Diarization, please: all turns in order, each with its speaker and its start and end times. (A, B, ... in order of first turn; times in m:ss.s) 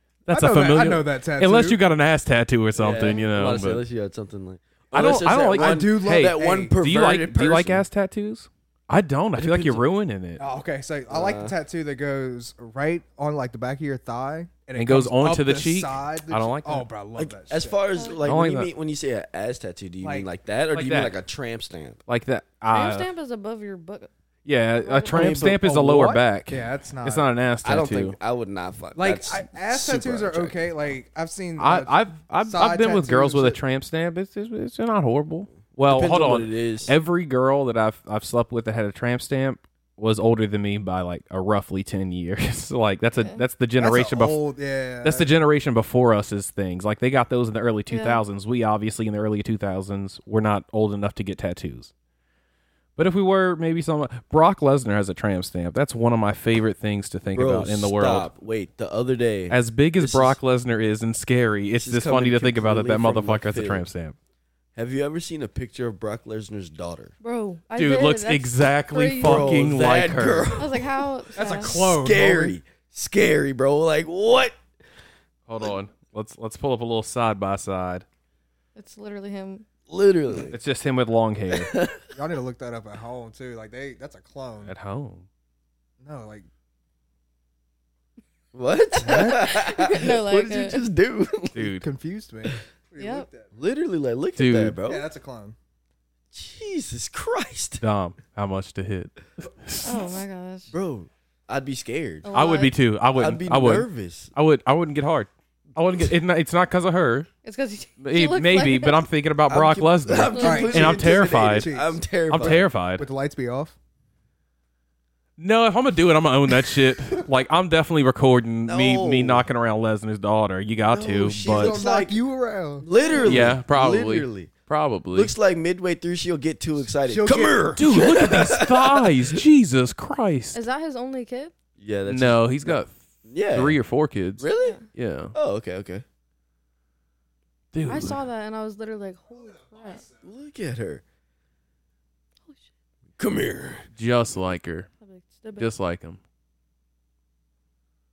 0:00.3-0:03.8 A
0:00.3-0:01.8 B
0:02.7-0:07.8 C
0:04.9-0:10.4 A
0:05.6-0:06.7 B
0:09.4-0:09.8 C
0:10.4-0:17.8 B
0:11.1-0:11.5 C
0:14.8-0:16.9 A
0:17.2-0:22.0 C
0:17.9-0:18.2 D
0:18.2-0:18.7 A
0:20.0-0:20.3 B
0:20.7-0:21.1 A
0:22.1-0:23.1 A
0:22.7-0:24.1 D
0:24.4-0:28.2 A
0:24.8-0:25.3 D
0:25.1-0:27.3 B
0:25.1-0:25.5 C
0:27.6-0:30.6 C
0:29.0-0:33.6 B
0:31.6-0:44.4 A
0:35.7-0:37.0 C
0:43.8-0:45.3 B
0:45.0-0:51.9 A
0:47.9-0:48.2 D
0:53.0-0:58.3 A
0:57.3-1:00.4 C
0:59.5-1:04.2 A
1:01.7-1:03.9 C
1:04.7-1:07.1 C
1:07.2-1:09.5 D
1:07.7-1:10.5 A
1:09.2-1:14.6 C
1:10.6-1:11.9 D
1:11.3-1:12.6 B
1:15.5-1:18.0 A
1:18.8-1:19.6 D
1:19.9-1:20.6 C
1:20.5-1:21.7 A
1:21.5-1:22.0 C
1:22.1-1:24.7 B
1:24.6-1:25.2 A
1:26.0-1:26.5 B
1:28.5-1:31.7 C
1:29.0-1:29.5 B
1:29.0-1:30.8 D
1:31.5-1:31.8 A
1:31.8-1:33.5 B
1:33.0-1:33.3 D
1:33.5-1:35.0 C
1:34.4-1:34.8 A
1:34.8-1:35.6 B
1:36.3-1:37.8 C
1:37.8-1:40.2 A
1:39.8-1:40.7 D
1:40.7-1:42.3 C
1:42.2-1:42.8 D
1:42.3-1:47.3 A
1:43.1-1:44.3 C
1:47.4-1:49.0 D
1:48.0-1:51.7 A
1:49.5-1:52.7 C
1:50.1-1:50.8 D
1:50.4-1:53.8 B
1:52.3-1:53.1 A
1:55.4-2:01.8 A
1:58.6-1:59.4 C
2:00.8-2:01.9 C
2:01.4-2:02.9 B
2:01.8-2:02.1 D
2:02.8-2:04.5 C
2:03.0-2:03.4 D
2:03.2-2:05.3 A
2:05.1-2:09.4 C
2:07.1-2:07.8 B
2:07.8-2:10.6 A
2:10.5-2:11.5 D
2:11.8-2:12.8 C
2:12.1-2:15.3 A
2:13.3-2:13.8 C
2:14.4-2:14.8 C
2:15.3-2:16.0 C
2:17.7-2:18.2 A
2:17.9-2:20.1 D
2:20.2-2:21.0 C
2:22.4-2:22.7 D
2:23.2-2:23.9 C
2:24.0-2:24.9 A
2:25.0-2:25.7 D
2:25.6-2:26.2 A